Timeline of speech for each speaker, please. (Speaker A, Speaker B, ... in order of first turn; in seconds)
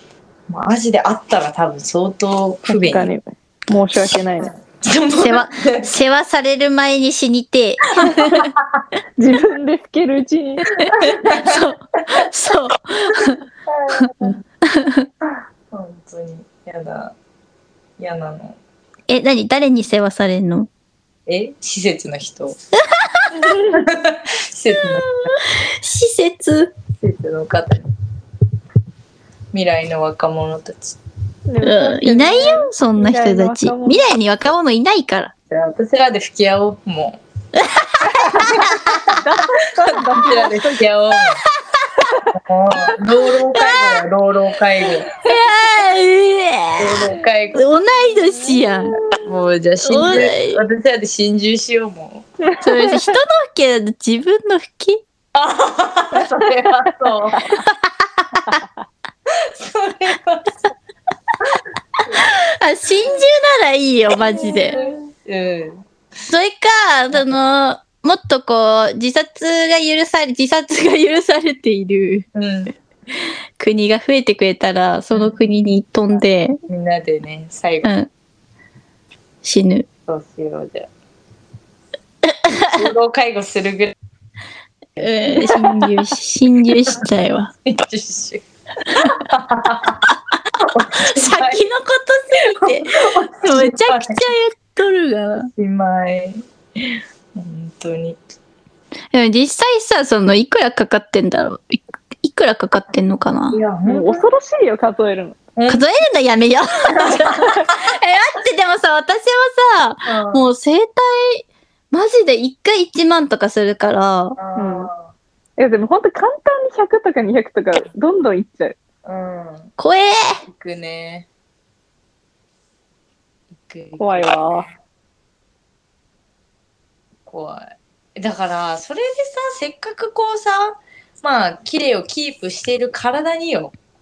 Speaker A: 0.5-3.1, 4.5-5.8, 8.0-8.8, 10.9-11.7, 13.7-14.4, 15.7-17.1, 18.0-18.6, 21.3-22.6, 23.9-25.3, 27.0-27.9, 29.5-31.0, 35.5-37.2, 40.2-41.4, 42.3-45.1, 46.8-47.6, 49.2-52.3, 55.4-57.5, 59.5-60.6, 64.3-65.8, 67.1-67.4, 72.3-72.7, 76.7-77.9, 80.1-80.9, 82.7-84.0, 85.0-86.0, 87.7-88.4, 89.1-90.1, 90.7-91.6, 92.6-94.3, 95.6-98.2, 103.5-104.2, 105.6-105.9, 110.1-110.5, 114.4-115.1, 119.0-119.7, 120.5-121.3, 123.5-124.7, 127.3-133.7
Speaker B: 2.7-4.5, 9.2-10.7, 23.3-23.9, 31.5-34.0, 38.3-40.9, 48.0-49.2, 52.5-53.0, 56.2-56.7, 64.3-65.0, 103.9-105.4, 114.5-114.9, 115.6-118.8, 124.0-124.7
Speaker C: 5.2-8.5, 11.0-13.4, 14.7-15.1, 19.1-20.7, 24.8-26.7, 31.6-35.3, 37.7-39.0, 43.5-44.0, 45.2-49.0, 49.8-50.6, 52.6-55.0, 62.1-64.8, 66.3-72.3, 73.6-76.6, 77.8-78.1, 79.4-79.9, 82.5-82.9, 85.0-87.5, 91.0-95.5, 99.1-103.6, 105.7-114.4, 119.8-120.4